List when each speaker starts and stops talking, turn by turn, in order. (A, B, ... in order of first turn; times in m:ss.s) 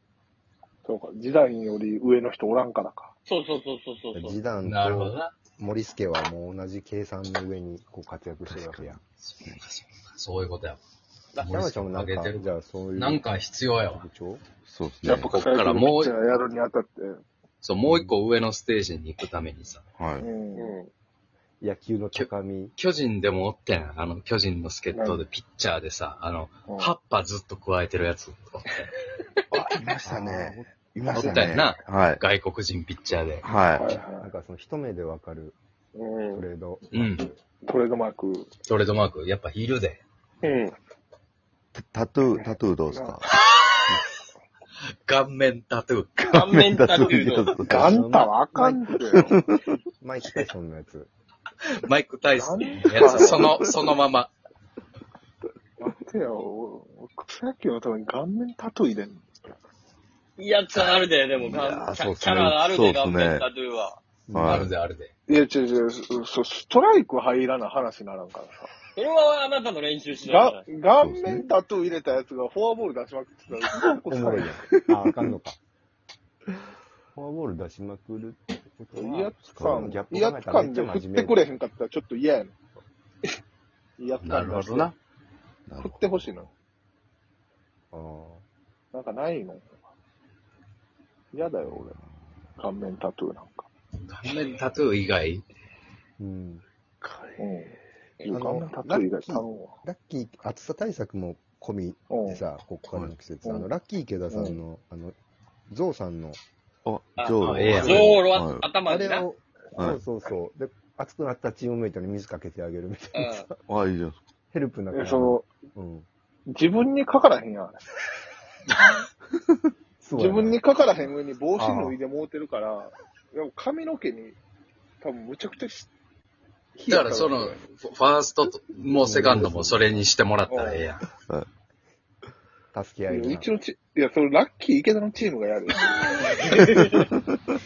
0:00.8-0:03.1 A
0:03.2-0:04.4 B
0:04.1-0:09.0 C
0:04.6-0:05.3 D
0:08.4-0:09.6 E
0:09.2-0:10.8 D
0:11.3-0:14.0 D
0:11.4-0:13.3 C
0:13.9-0:14.4 C
0:14.6-0:15.4 E
0:15.0-0:16.1 D
0:15.0-0:17.2 A
0:17.6-0:19.8 D
0:17.9-0:18.2 C
0:20.0-0:20.3 E
0:20.2-0:20.8 A
0:20.5-0:20.9 B
0:21.6-0:22.7 C
0:22.1-0:28.9 D
0:24.9-0:25.2 A
0:26.7-0:26.9 A
0:29.5-0:32.2 E
0:30.0-0:31.6 C
0:31.1-0:33.5 D
0:33.4-0:33.9 E
0:33.8-0:34.3 A
0:33.8-0:35.6 C
0:36.0-0:36.4 B
0:36.3-0:37.3 C
0:36.9-0:37.3 D
0:37.6-0:38.5 A
0:38.6-0:40.0 D
0:40.4-0:40.7 B
0:41.7-0:43.3 E
0:42.3-0:43.2 A
0:43.6-0:43.9 D
0:45.0-0:46.3 D
0:46.2-0:47.5 B
0:46.3-0:48.0 E
0:47.6-0:49.4 C
0:47.6-0:49.4 A
0:49.1-0:49.4 E
0:50.0-0:51.1 C
0:51.8-0:54.3 D
0:52.3-0:53.4 A
0:53.1-0:53.7 E
0:55.8-0:59.3 A
1:00.4-1:04.0 B
1:00.7-1:03.5 E
1:04.3-1:04.7 C
1:04.3-1:04.7 E
1:04.4-1:05.1 D
1:05.3-1:08.7 A
1:09.0-1:10.7 B
1:10.2-1:14.6 A
1:11.0-1:11.5 E
1:14.1-1:15.6 C
1:17.1-1:21.4 C
1:18.9-1:22.5 A
1:19.5-1:19.8 E
1:24.0-1:24.9 A
1:24.2-1:25.0 D
1:25.7-1:26.5 E
1:25.8-1:26.5 A
1:27.9-1:28.4 C
1:28.9-1:29.7 A
1:31.3-1:32.0 A
1:31.6-1:32.3 E
1:32.6-1:33.7 A
1:34.0-1:35.4 D
1:36.2-1:36.6 C
1:37.4-1:39.7 A
1:38.3-1:45.1 C
1:42.1-1:42.4 A
1:43.4-1:43.7 A
1:44.3-1:44.6 A
1:45.7-1:46.4 C
1:46.8-1:48.7 E
1:47.2-1:49.3 B
1:47.4-1:48.2 D
1:47.8-1:48.2 C
1:48.8-1:53.6 C
1:49.8-1:50.0 E
1:53.1-1:53.5 B
1:53.7-1:54.2 E
1:54.5-1:56.1 C
1:54.9-1:55.5 A
1:56.5-1:57.8 A
2:00.0-2:00.6 C
2:00.2-2:04.4 A
2:01.6-2:02.0 C
2:05.0-2:05.9 A
2:06.8-2:07.6 A
2:06.9-2:11.0 D
2:09.0-2:10.0 C
2:10.5-2:10.9 A
2:12.7-2:13.5 C
2:13.1-2:17.0 A